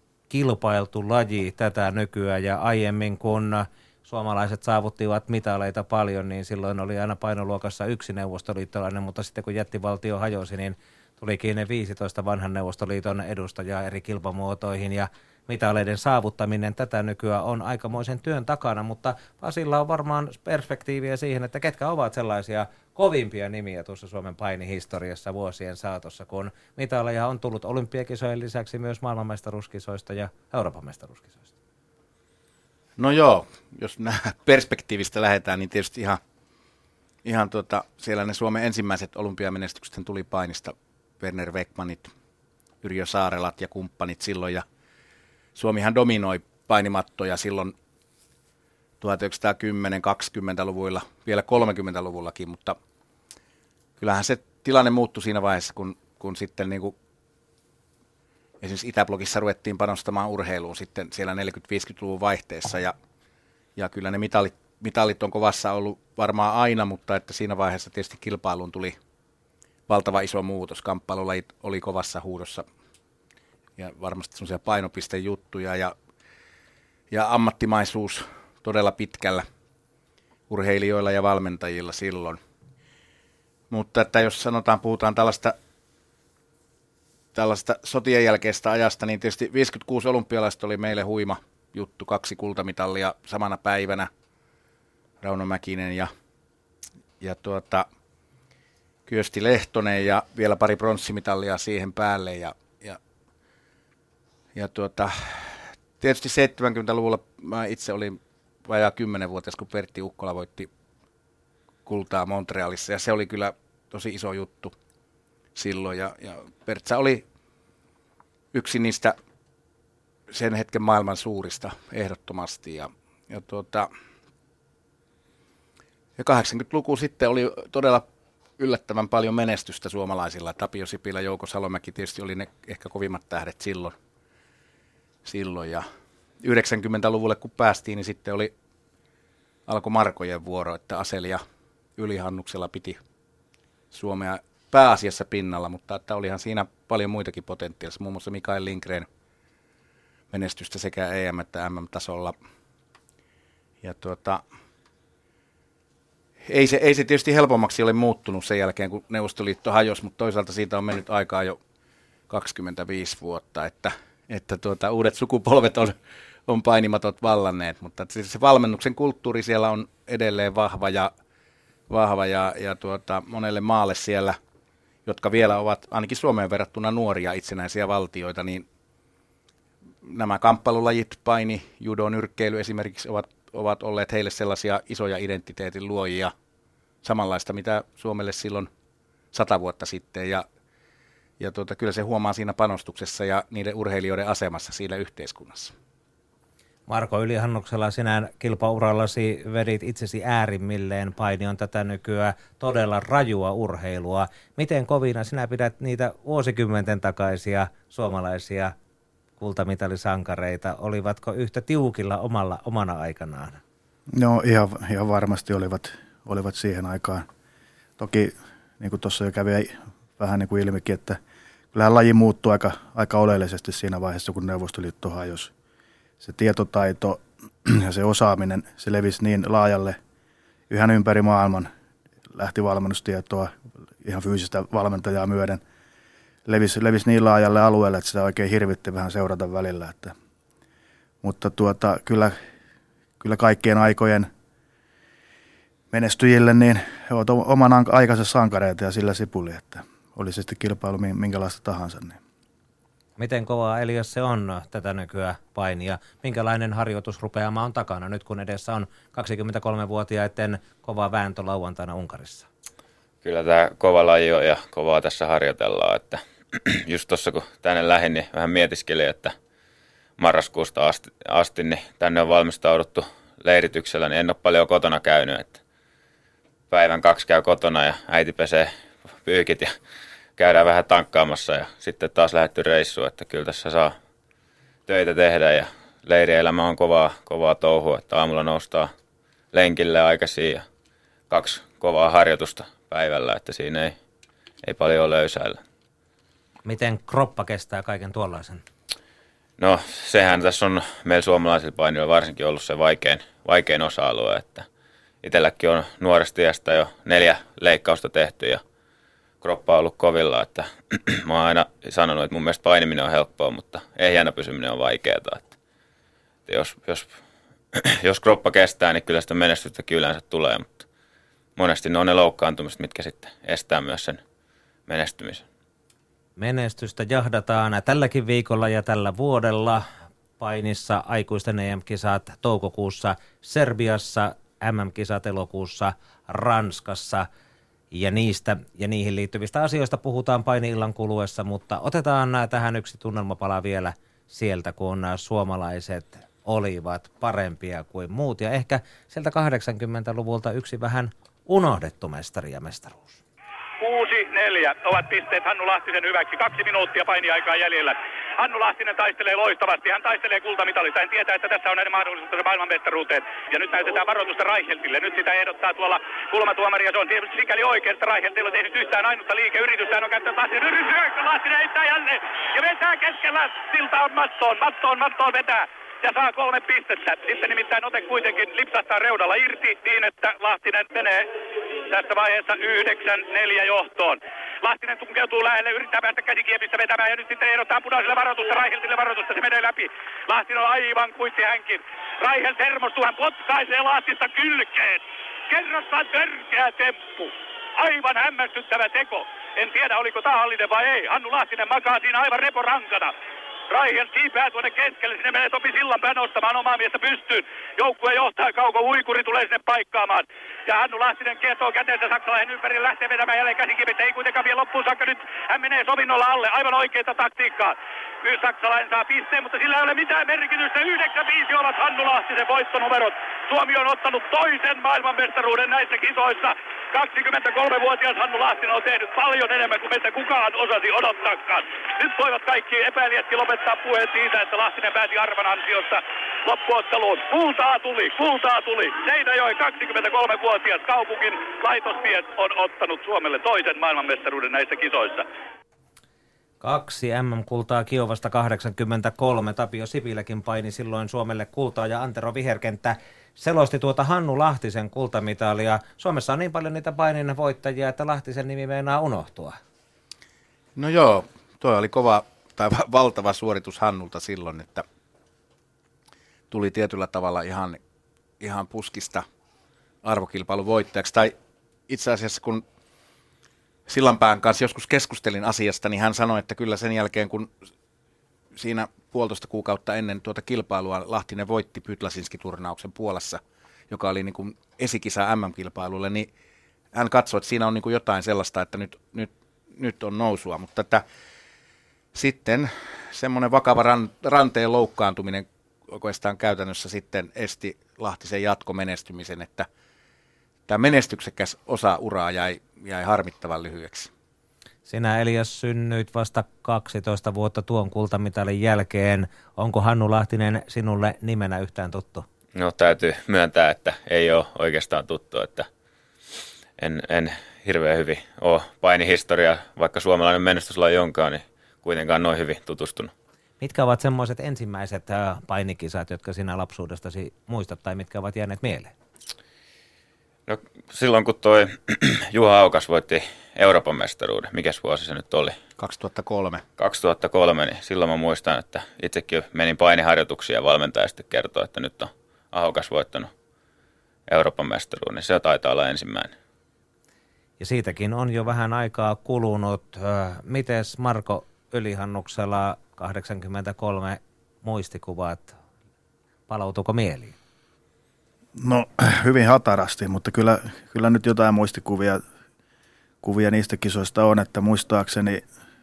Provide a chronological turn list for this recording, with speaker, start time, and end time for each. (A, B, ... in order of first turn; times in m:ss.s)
0:00.3-0:31.5 A
0:33.0-0:36.2 B
0:37.2-0:42.1 B
0:42.8-0:44.6 B
0:45.6-0:47.7 B
0:49.0-0:52.8 B
0:54.0-0:57.0 B
0:58.6-1:02.9 B
1:03.8-1:09.0 B
1:09.9-1:12.6 B
1:13.8-1:16.0 B
1:17.1-1:19.5 B
1:20.5-1:22.4 B
1:23.7-1:25.6 B
1:27.4-1:34.1 B
1:35.2-1:36.1 B
1:37.2-1:37.9 B
1:39.1-1:43.0 B
1:44.6-1:50.7 B
1:51.9-1:54.7 B
1:55.6-1:57.2 B
1:58.5-1:59.2 B
2:00.3-2:03.9 B
2:06.2-2:08.0 B
2:08.6-2:14.0 B
2:15.2-2:15.8 B
2:16.4-2:18.5 B
2:19.7-2:21.4 B
2:22.0-2:23.0 B
2:23.9-2:29.1 B
2:30.3-2:32.4 B
2:33.8-2:34.4 B
2:36.5-2:41.6 B
2:42.3-2:46.0 B
2:46.5-2:51.1 B
2:51.9-2:54.4 B
2:55.1-2:58.6 B
3:00.0-3:06.3 B
3:07.0-3:08.7 B
3:09.3-3:10.4 B
3:11.4-3:15.7 B
3:16.9-3:28.7 A
3:29.4-3:33.6 A
3:34.1-3:37.3 C
3:38.0-3:41.2 C
3:41.7-3:45.5 C
3:46.2-3:50.0 C
3:50.7-3:51.7 C
3:52.3-3:55.6 C
3:56.5-4:00.1 C
4:01.2-4:02.4 C
4:03.2-4:04.3 C
4:05.9-4:12.2 C
4:13.2-4:22.5 A
4:23.2-4:29.3 D
4:30.2-4:35.6 D
4:36.7-4:39.7 D
4:40.4-4:44.0 D
4:44.9-4:48.9 D
4:49.5-4:50.6 D
4:51.3-4:54.0 D
4:54.6-4:55.6 D
4:56.6-4:58.6 A
4:59.6-5:04.7 D
5:05.2-5:08.6 D
5:09.4-5:15.5 D
5:16.5-5:17.1 D
5:17.7-5:20.9 D
5:21.6-5:24.2 D
5:24.9-5:25.4 D
5:26.4-5:29.8 A
5:30.4-5:37.3 A
5:37.9-5:53.2 A
5:53.8-6:21.3 E
6:21.9-6:43.1 E
6:43.7-7:25.3 E
7:26.6-7:39.6 A
7:40.8-7:44.8 B
7:46.5-7:47.8 B
7:48.4-7:49.2 B
7:50.0-7:51.3 B
7:51.9-7:52.6 B
7:53.9-7:57.5 B
7:58.6-8:06.3 B
8:06.9-8:11.0 B
8:12.1-8:19.7 B
8:20.7-8:24.1 B
8:24.9-8:32.3 A
8:32.6-8:35.7 D
8:36.8-8:43.1 D
8:43.6-8:48.9 A
8:50.5-8:55.6 D
8:55.8-8:56.6 B
8:56.8-9:03.3 D
9:04.3-9:06.3 D
9:07.6-9:15.5 A
9:16.5-9:17.4 A
9:18.6-9:22.2 C
9:23.2-9:25.4 C